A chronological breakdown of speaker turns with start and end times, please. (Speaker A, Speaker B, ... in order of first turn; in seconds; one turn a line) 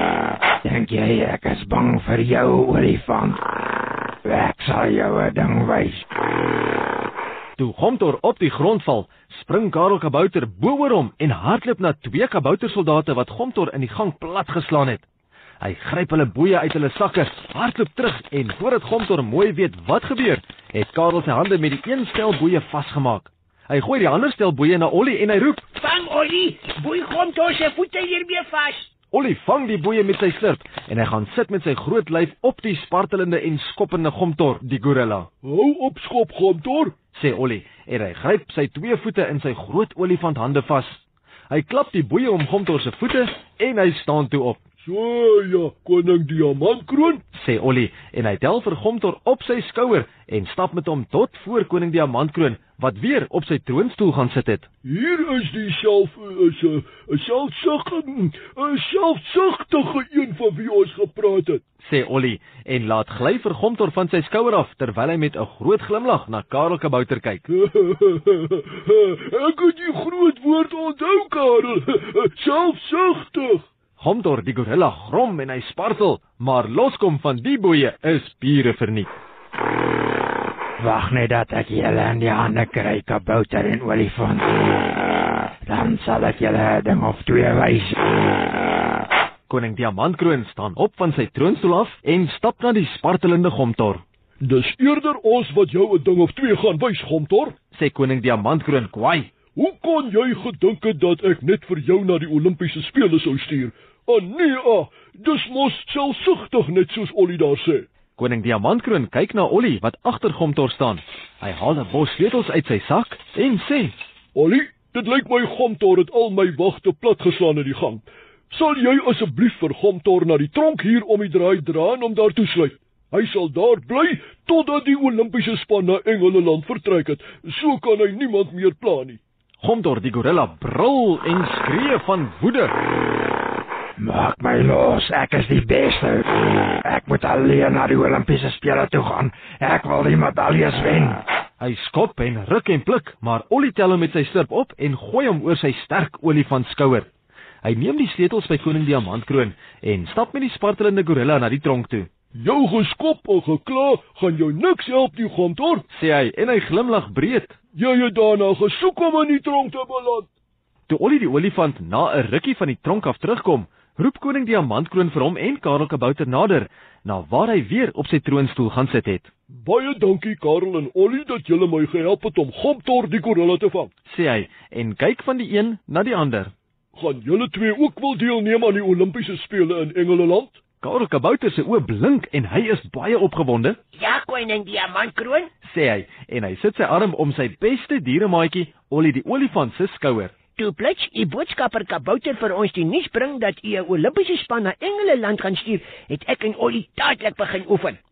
Speaker A: 0.6-3.4
Speaker A: 4.2-6.0
Speaker B: 7.6-15.1
Speaker B: 15.6-25.7
Speaker C: 25.8-28.9
Speaker B: 29.1-35.3
Speaker D: 35.4-36.9
Speaker B: 37.1-44.6
Speaker D: 44.8-47.2
Speaker B: 47.3-54.7
Speaker D: 54.9-61.6
Speaker B: 61.8-67.5
Speaker D: 67.5-73.7
Speaker B: 74.0-79.1
Speaker A: 80.8-84.5
Speaker A: 85.7-88.1
Speaker B: 89.5-94.0
Speaker D: 94.4-97.6
Speaker B: 97.7-99.3
Speaker D: 99.6-107.9
Speaker B: 108.2-113.9
Speaker D: 114.3-129.2
Speaker B: 129.6-132.7
Speaker A: 134.0-141.2
Speaker B: 141.6-147.1
Speaker B: 147.6-152.1
Speaker D: 152.4-155.8
Speaker B: 155.9-157.6
Speaker D: 157.8-160.3
Speaker B: 160.9-169.3
Speaker D: 169.5-173.9
Speaker B: 174.1-176.5
Speaker D: 176.9-180.6
Speaker B: 180.8-183.8
Speaker C: 184.0-185.5
Speaker B: 185.6-190.3
Speaker C: 190.6-198.0